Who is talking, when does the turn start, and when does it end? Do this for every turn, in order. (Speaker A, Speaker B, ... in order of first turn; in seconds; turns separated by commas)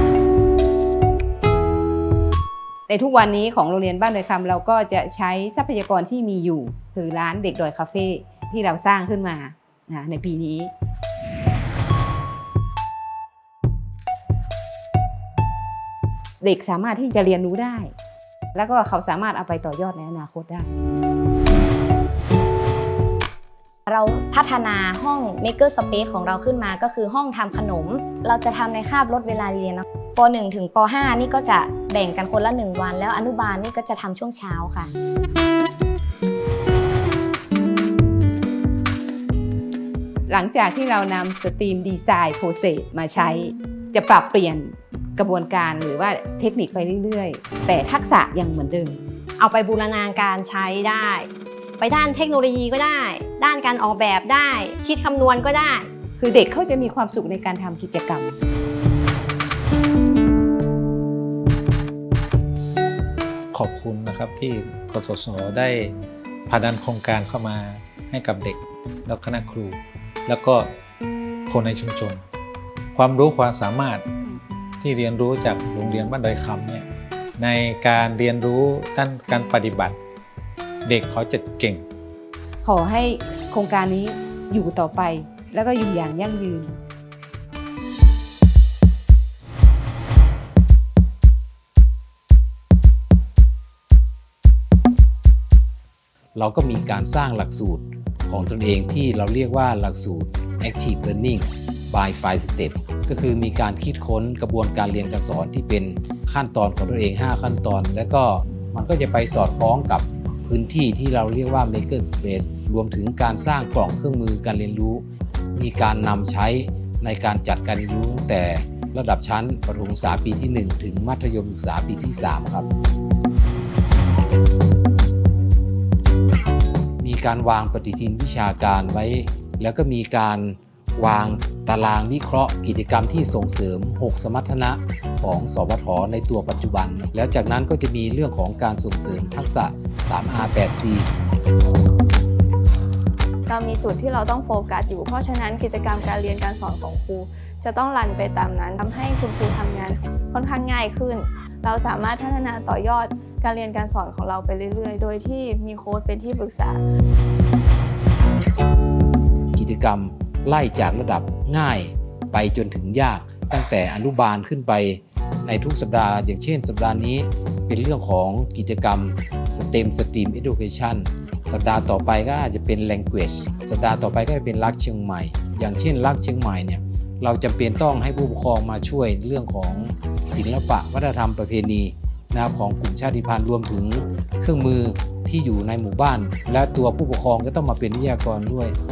Speaker A: 2.9-10.7, Speaker A: 16.4-17.9, Speaker A: 18.6-20.7, Speaker B: 23.9-34.9, Speaker A: 40.3-49.0, Speaker C: 49.4-51.3, Speaker C: 51.8-55.9, Speaker A: 56.2-58.4, Speaker D: 63.5-66.0, Speaker D: 66.5-70.7, Speaker D: 71.5-72.2, Speaker D: 72.9-74.1, Speaker D: 74.8-80.0, Speaker D: 80.8-81.9, Speaker A: 82.6-86.8, Speaker E: 96.4-115.0, Speaker E: 115.5-122.7, Speaker E: 127.0-141.1, Speaker F: 143.5-156.8, Speaker E: 159.6-188.8